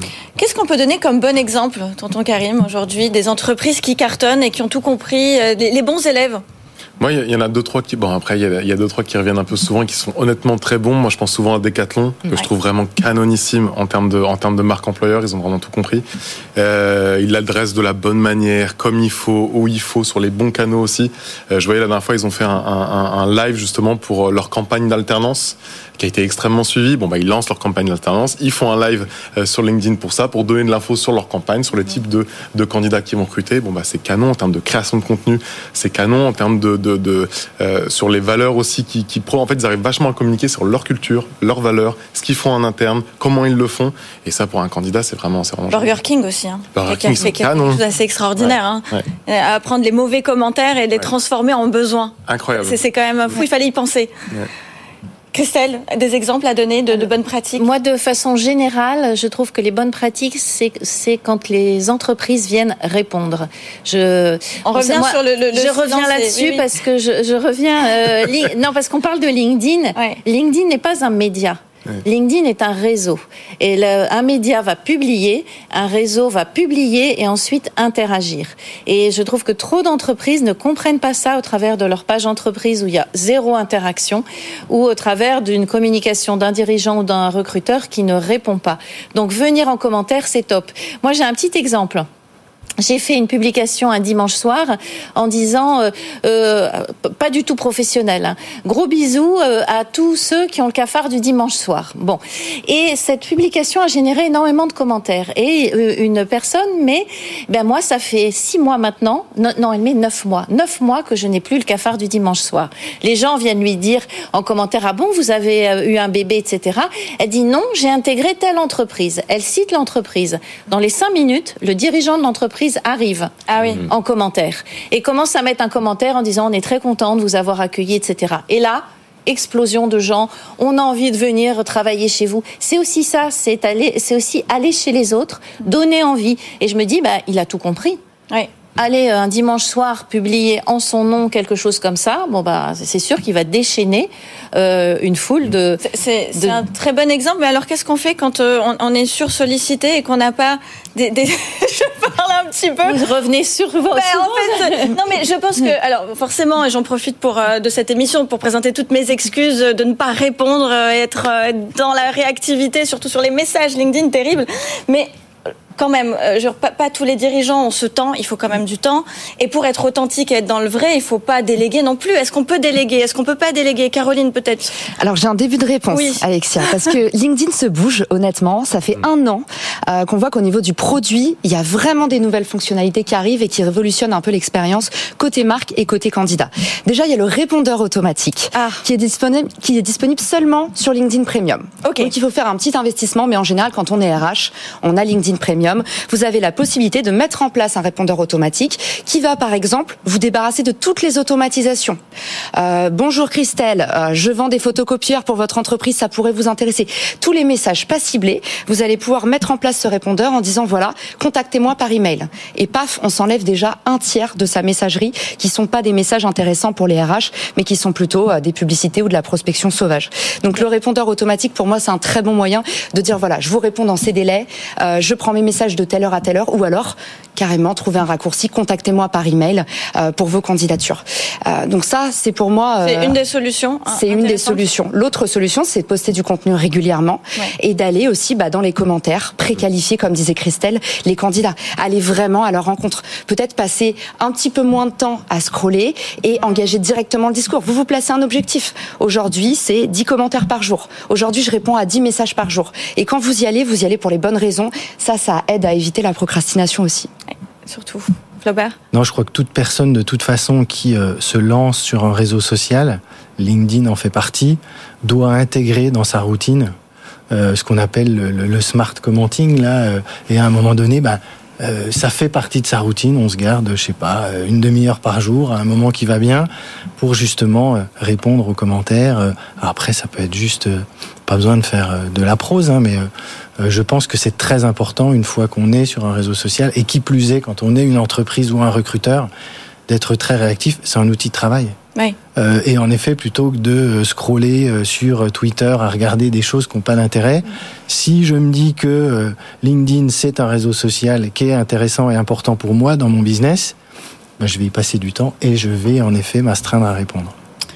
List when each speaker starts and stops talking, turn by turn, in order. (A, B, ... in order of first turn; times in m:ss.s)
0:00.4-0:06.4 A
0:07.0-0:16.0 B
0:16.6-0:46.0 B
0:45.7-0:54.1 A
0:46.7-0:47.8 B
0:48.4-0:49.1 B
0:52.3-0:52.8 B
0:55.3-0:57.6 A
0:57.6-1:32.1 C
1:04.6-1:06.7 A
1:32.8-2:18.0 C
2:03.5-2:03.8 A
2:18.8-2:25.8 C
2:25.8-2:33.0 A
2:26.4-2:26.6 C
2:32.8-2:34.9 C
2:33.9-2:45.1 A
2:45.8-2:54.8 A
2:55.0-3:22.0 D
2:55.9-2:56.2 A
3:08.6-3:08.8 A
3:11.8-3:12.1 A
3:22.5-3:53.2 D
3:52.8-3:54.6 A
3:53.9-4:17.1 D
4:17.7-4:18.8 A
4:18.9-4:26.7 E
4:27.3-4:43.1 E
4:43.6-4:49.3 E
4:49.9-4:51.8 E
4:52.4-5:03.8 E
5:04.4-5:07.3 E